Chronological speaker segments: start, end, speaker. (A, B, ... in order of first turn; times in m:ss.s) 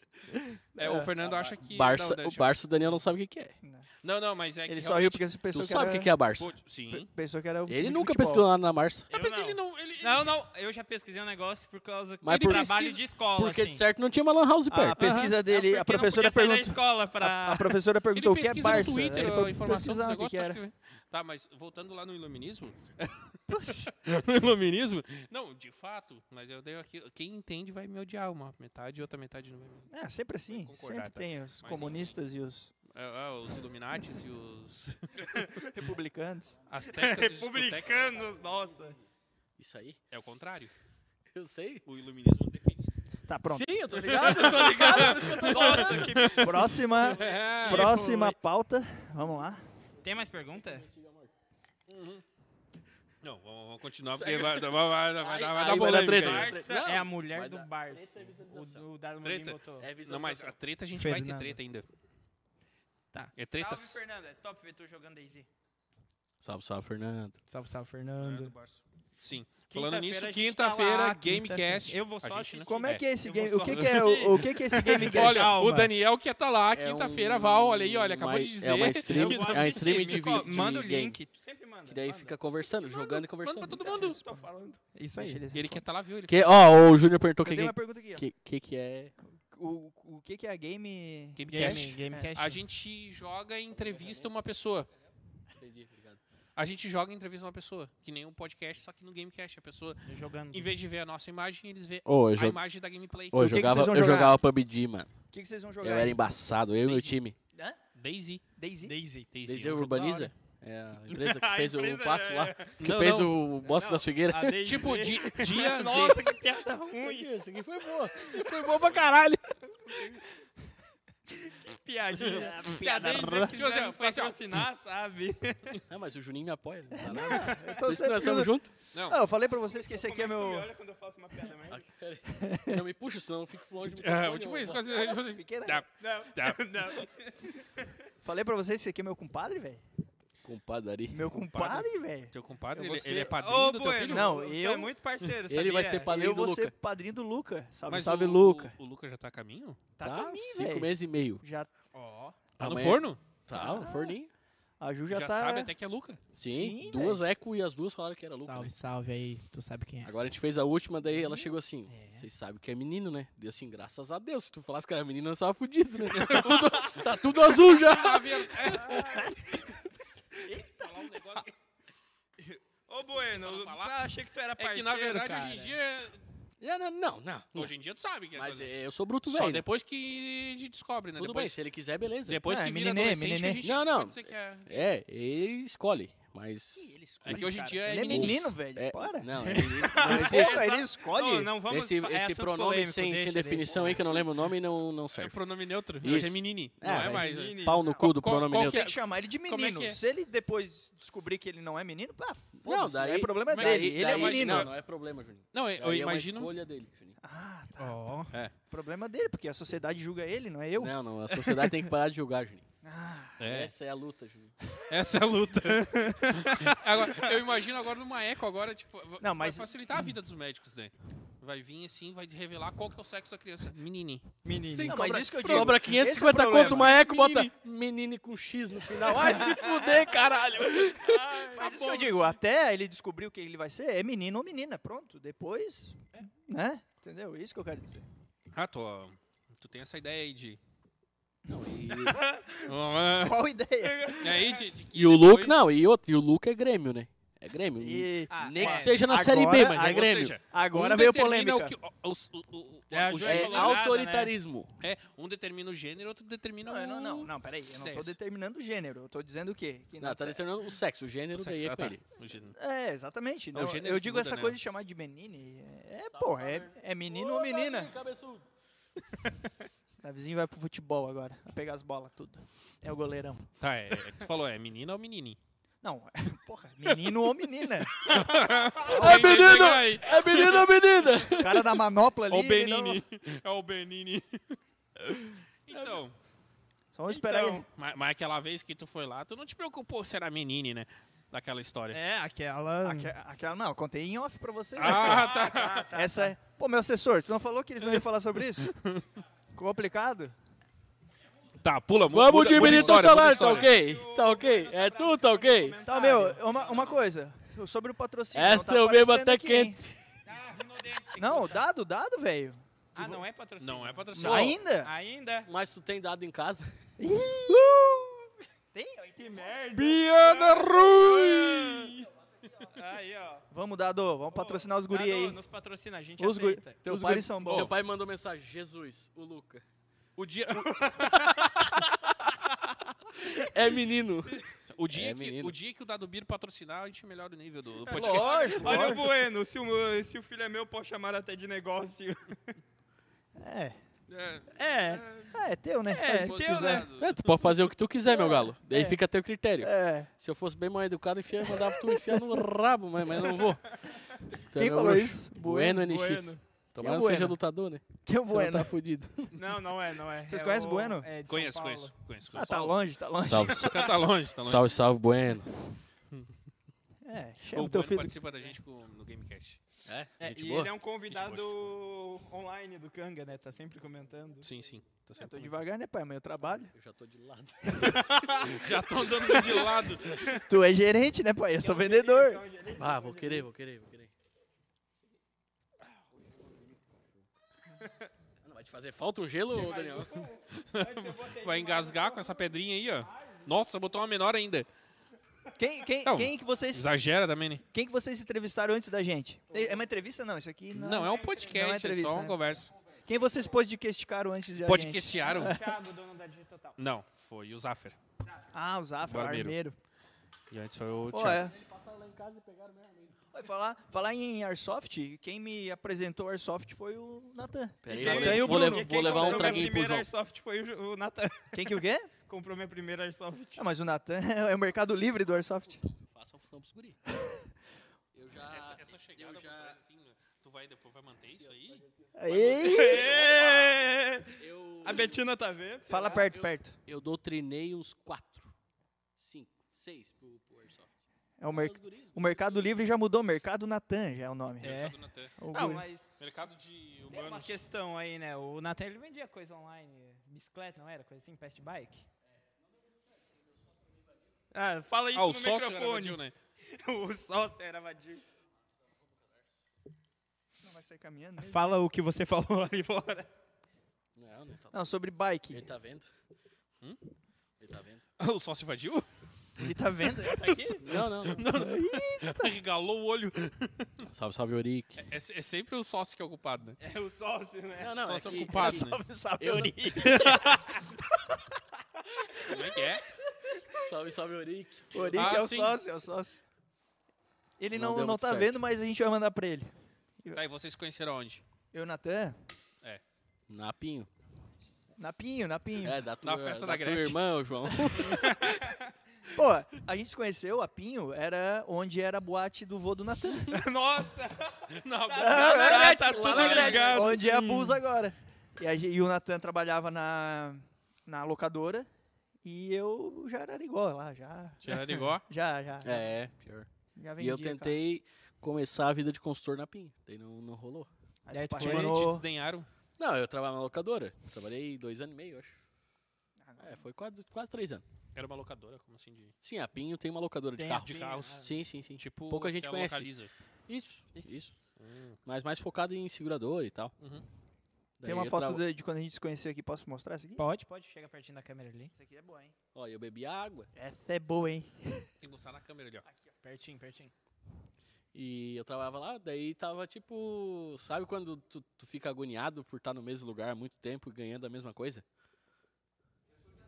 0:00.8-0:02.5 A
0:00.8-0:01.1 B
0:01.2-0:03.6 C
0:04.0-0:05.2 A
0:04.7-0:06.1 B
0:05.5-0:06.5 C
0:06.4-0:07.1 A
0:06.9-0:08.5 B
0:07.7-0:09.1 C
0:09.1-0:13.8 D
0:09.1-0:10.3 A
0:12.2-0:15.1 C
0:12.3-0:12.8 A
0:14.7-0:20.6 B
0:15.0-0:15.4 A
0:15.4-0:17.8 D
0:18.1-0:29.9 A
0:23.5-0:23.9 B
0:29.9-0:32.7 B
0:30.5-0:32.2 A
0:32.9-0:35.3 A
0:35.2-0:35.7 D
0:35.6-0:36.6 B
0:36.7-0:38.2 A
0:36.9-0:39.0 D
0:39.6-0:40.0 C
0:40.1-0:40.7 A
0:41.3-0:41.8 C
0:41.8-0:43.0 A
0:43.3-0:43.7 B
0:43.5-0:46.3 C
0:44.0-0:47.9 A
0:44.9-0:48.4 D
0:46.4-0:49.6 B
0:50.0-0:50.9 D
0:50.0-0:51.3 C
0:51.9-0:52.2 A
0:53.2-0:56.6 A
0:54.1-0:58.9 C
0:55.7-0:59.9 D
0:59.2-1:01.9 A
0:59.8-1:00.6 C
1:01.0-1:01.6 D
1:03.1-1:05.5 D
1:03.4-1:04.0 A
1:06.4-1:07.4 C
1:07.5-1:08.5 D
1:08.2-1:13.1 A
1:09.7-1:15.9 D
1:12.7-1:15.6 B
1:13.6-1:19.9 A
1:16.8-1:21.2 C
1:19.1-1:22.4 D
1:21.8-1:23.8 C
1:23.3-1:24.2 A
1:23.7-1:25.4 D
1:23.8-1:24.4 B
1:25.2-1:25.8 B
1:25.5-1:26.5 A
1:26.3-1:29.1 C
1:27.4-1:28.2 B
1:29.4-1:32.3 B
1:31.4-1:34.9 A
1:31.5-1:32.6 D
1:33.7-1:34.3 C
1:35.6-1:36.2 C
1:36.6-1:43.6 A
1:40.1-1:40.7 D
1:42.1-1:42.6 C
1:43.3-1:45.1 C
1:43.4-1:44.4 B
1:45.3-1:46.2 B
1:45.8-1:47.4 C
1:46.9-1:47.8 B
1:48.0-1:48.4 A
1:48.6-1:49.0 B
1:48.8-1:49.3 D
1:49.3-1:50.3 A
1:49.5-1:54.8 C
1:51.1-1:52.7 D
1:52.8-1:53.4 A
1:53.6-1:57.3 D
1:54.6-1:56.2 A
1:57.0-2:00.2 C
1:58.2-1:58.6 D
1:59.8-2:00.2 D
2:01.3-2:05.8 D
2:02.2-2:04.6 A
2:02.3-2:03.5 B
2:05.9-2:08.7 C
2:06.9-2:10.7 B
2:08.9-2:09.2 A
2:09.7-2:11.8 D
2:11.7-2:14.9 C
2:12.3-2:12.8 B
2:14.0-2:16.7 A
2:14.9-2:15.8 B
2:16.0-2:17.8 D
2:18.2-2:19.8 B
2:20.4-2:21.3 C
2:21.1-2:23.4 B
2:21.5-2:24.3 A
2:23.3-2:26.1 D
2:24.0-2:24.9 B
2:25.5-2:26.7 C
2:26.0-2:28.8 B
2:27.9-2:29.8 A
2:30.0-2:31.7 B
2:30.0-2:31.4 C
2:31.9-2:32.4 D
2:32.6-2:33.2 A
2:32.6-2:34.3 C
2:33.5-2:34.2 B
2:34.8-2:35.7 B
2:35.1-2:36.2 A
2:36.3-2:38.7 C
2:36.5-2:37.2 B
2:38.4-2:40.1 D
2:40.0-2:48.9 C
2:41.9-2:42.3 D
2:46.1-2:47.1 A
2:47.7-2:49.2 A
2:48.7-2:49.7 D
2:50.4-2:50.8 B
2:50.6-2:51.5 A
2:52.9-2:55.8 D
2:53.1-2:54.0 A
2:54.6-2:56.2 A
2:56.6-2:57.7 C
2:57.5-2:58.7 A
2:58.4-2:59.6 C
2:59.3-3:01.6 A
3:01.2-3:02.4 C
3:02.3-3:04.8 A
3:02.4-3:03.6 B
3:03.6-3:07.4 C
3:06.8-3:11.5 B
3:07.2-3:08.5 A
3:07.9-3:10.7 C
3:09.5-3:14.2 D
3:11.7-3:15.4 C
3:15.1-3:20.0 A
3:16.0-3:18.8 C
3:17.0-3:17.9 D
3:17.8-3:24.7 B
3:22.6-3:27.2 C
3:23.5-3:24.7 A
3:25.5-3:26.5 A
3:27.2-3:28.2 B
3:27.8-3:28.3 D
3:28.7-3:30.9 B
3:30.8-3:32.7 C
3:32.8-3:33.4 B
3:33.4-3:33.7 A
3:33.5-3:34.5 C
3:34.9-3:44.3 A
3:35.7-3:37.3 D
3:39.2-3:39.7 B
3:44.4-3:45.6 D
3:44.7-3:51.2 C
3:44.8-3:46.9 B
3:46.5-3:47.5 A
3:49.1-3:49.9 B
3:51.0-3:51.7 D
3:51.5-3:58.1 B
3:51.6-3:52.4 A
3:58.5-4:00.6 A
4:01.5-4:02.2 C
4:02.0-4:02.6 D
4:02.6-4:03.4 A
4:03.2-4:04.3 B
4:03.8-4:04.6 D
4:04.2-4:05.7 A
4:04.9-4:10.4 C
4:07.8-4:11.8 B
4:08.3-4:09.0 D
4:09.8-4:13.9 A
4:12.9-4:14.3 D
4:13.2-4:14.8 C
4:14.8-4:18.2 A
4:16.6-4:20.4 B
4:20.0-4:22.0 C
4:21.4-4:22.6 A
4:22.6-4:27.9 B
4:23.5-4:24.6 A
4:26.1-4:28.5 C
4:30.0-4:33.5 B
4:33.6-4:35.4 A
4:35.8-4:38.2 B
4:38.0-4:41.2 A
4:38.9-4:41.8 C
4:41.4-4:43.0 B
4:42.3-4:44.6 A
4:45.1-4:46.0 D
4:45.7-4:46.2 A
4:46.9-4:47.6 B
4:47.1-4:47.7 D
4:47.8-4:52.0 A
4:51.9-4:53.1 D
4:52.8-4:55.4 B
4:54.8-4:55.9 A
4:54.8-4:56.3 D
4:55.9-4:58.7 B
4:58.6-4:59.1 A
4:59.5-5:00.4 B
5:01.6-5:03.7 A
5:02.1-5:05.8 C
5:02.5-5:03.1 B
5:03.1-5:06.8 D
5:05.8-5:09.8 B
5:06.6-5:06.9 A
5:08.3-5:09.9 C
5:10.2-5:11.6 D
5:11.2-5:13.2 B
5:13.0-5:15.5 D
5:13.6-5:14.6 A
5:14.2-5:14.9 B
5:14.2-5:14.6 C
5:15.5-5:16.7 C
5:17.0-5:18.1 B
5:18.7-5:19.8 B
5:19.2-5:21.9 D
5:19.7-5:22.1 A
5:22.7-5:23.5 D
5:23.5-5:25.4 B
5:24.3-5:26.8 D
5:26.2-5:27.8 B
5:26.8-5:29.6 C
5:27.5-5:27.7 A
5:30.2-5:30.9 A
5:30.6-5:31.7 D
5:31.0-5:31.4 C
5:33.3-5:35.6 C
5:34.6-5:39.0 A
5:37.8-5:42.4 D
5:37.9-5:39.1 B
5:43.4-5:43.8 B
5:44.1-5:45.4 A
5:44.6-5:45.0 D
5:45.3-5:46.9 B
5:45.9-5:46.9 D
5:46.1-5:47.6 A
5:47.0-5:53.8 C
5:48.1-5:49.0 B
5:49.6-5:50.1 B
5:51.8-5:52.4 B
5:54.5-5:59.4 C
5:54.5-5:56.2 B
5:56.0-5:56.4 D
5:56.8-5:57.4 B
5:58.1-5:58.7 B
5:59.4-6:02.7 D
6:00.3-6:01.1 B
6:01.3-6:02.6 A
6:02.3-6:03.7 B
6:03.2-6:05.5 C
6:03.4-6:04.8 A
6:07.0-6:08.2 B
6:07.5-6:09.6 A
6:09.9-6:10.7 C
6:10.2-6:14.5 D
6:11.1-6:11.6 A
6:14.4-6:15.6 A
6:15.2-6:16.7 B
6:16.7-6:18.2 C
6:17.8-6:18.7 D
6:18.4-6:20.4 A
6:19.3-6:20.4 D
6:20.3-6:22.4 B
6:21.6-6:23.5 D
6:22.7-6:24.1 C
6:28.4-6:30.3 C
6:29.5-6:33.6 D
6:30.5-6:34.7 A
6:35.6-6:36.9 B
6:36.0-6:37.6 A
6:37.7-6:42.4 B
6:40.7-6:42.7 A
6:41.0-6:41.5 D
6:43.0-6:45.8 B
6:44.6-6:45.6 A
6:45.2-6:46.8 D
6:46.8-6:48.0 A
6:48.5-6:49.8 B
6:49.1-6:49.6 A
6:50.5-6:51.5 A
6:51.1-6:51.6 B
6:51.3-6:53.2 C
6:53.3-6:59.7 B
6:57.8-7:00.1 C
6:57.9-7:01.7 D
7:01.5-7:02.1 B
7:02.2-7:03.7 D
7:03.6-7:05.8 B
7:05.5-7:07.0 C
7:08.1-7:09.8 C
7:08.5-7:11.8 A
7:11.4-7:15.2 C
7:12.2-7:13.2 B
7:12.6-7:16.3 D
7:15.9-7:16.8 B
7:16.0-7:18.5 C
7:19.2-7:20.9 C
7:21.4-7:24.8 B
7:21.5-7:22.7 C
7:24.6-7:25.0 D
7:24.6-7:25.4 A
7:25.4-7:25.9 B
7:25.5-7:26.1 D
7:26.2-7:27.6 A
7:27.1-7:32.0 D
7:34.5-7:38.2 D
7:35.1-7:36.3 A
7:40.6-7:41.6 B
7:41.4-7:43.3 D
7:44.2-7:44.8 C
7:44.7-7:45.7 B
7:45.5-7:46.1 C
7:47.6-7:48.0 C
7:48.2-7:49.1 A
7:49.6-7:50.8 B
7:50.4-7:54.1 A
7:50.8-7:51.5 C
7:51.5-7:52.6 B
7:54.1-7:55.0 C
7:55.0-7:56.8 A
7:56.8-7:58.0 D
7:57.8-8:00.5 C
7:58.0-7:59.0 A
7:58.6-8:00.6 B
8:00.0-8:00.8 D
8:02.4-8:03.0 A
8:03.7-8:05.4 C
8:04.9-8:06.4 B
8:05.1-8:05.8 A
8:07.6-8:10.4 B
8:07.7-8:08.6 C
8:10.3-8:11.4 A
8:11.7-8:12.4 B
8:13.5-8:14.1 C
8:15.0-8:16.0 B
8:15.8-8:18.6 C
8:16.2-8:17.2 A
8:18.0-8:18.8 D
8:19.3-8:23.6 B
8:23.5-8:27.8 D
8:24.7-8:27.1 A
8:25.2-8:25.9 B
8:25.4-8:27.2 C
8:26.7-8:31.9 B
8:32.4-8:36.1 B
8:34.6-8:35.2 A
8:35.8-8:36.7 C
8:37.0-8:37.8 B
8:37.2-8:40.9 C
8:41.2-8:42.2 B
8:41.3-8:42.0 D
8:41.6-8:42.7 A
8:43.0-8:45.6 C
8:46.4-8:46.8 B
8:46.6-8:47.8 C
8:48.2-8:49.3 A
8:49.4-8:53.1 C
8:50.6-8:51.5 D
8:50.8-8:53.3 A
8:53.7-8:54.5 C
8:54.8-8:55.2 A
8:55.2-8:56.9 C
8:57.0-8:57.2 A
8:58.0-8:58.6 C
8:58.0-9:00.5 B
9:00.4-9:01.9 D
9:01.9-9:02.5 B
9:02.8-9:03.7 C
9:03.8-9:05.1 B
9:05.2-9:06.0 A
9:06.4-9:07.1 D
9:08.1-9:15.0 C